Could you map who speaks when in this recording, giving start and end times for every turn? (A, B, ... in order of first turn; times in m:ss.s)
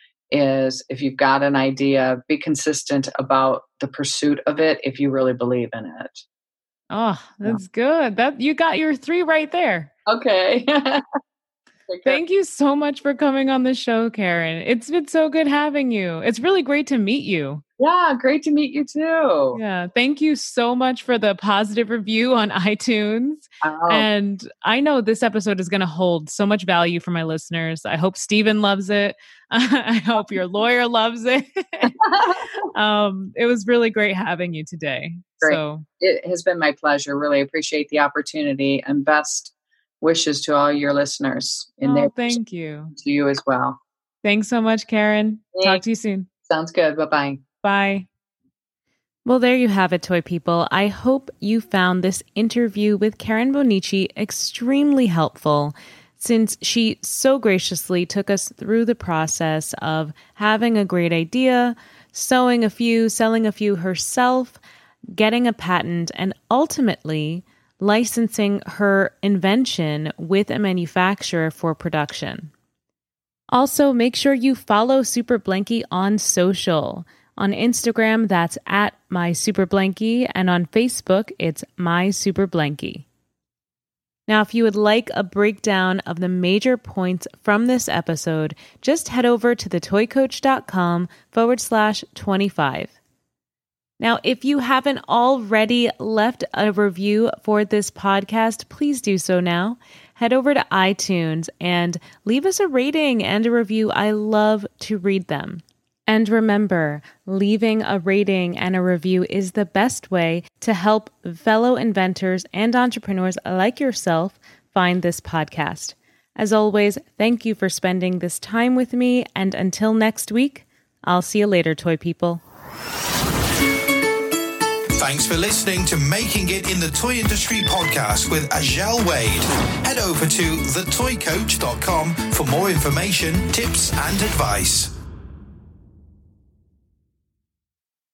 0:00.3-0:06.2 A
0:06.9-0:09.9 B
0:10.1-0:11.0 A
0:11.9-0:12.2 A
0:12.0-0:17.6 B
0:17.8-0:19.6 A
0:19.5-0:32.0 B
0:23.6-0:24.1 A
0:31.8-0:32.5 A
0:32.6-0:35.9 B
0:35.4-0:42.4 A
0:41.8-0:42.9 B
0:43.0-0:43.8 A
0:44.2-0:46.3 B
0:45.6-0:45.8 A
0:46.4-0:47.4 A
0:47.6-0:48.1 B
0:49.2-1:04.6 B
1:05.2-1:12.5 B
1:13.5-1:23.1 B
1:24.3-1:33.0 B
1:34.0-2:02.4 B
2:04.9-2:14.9 C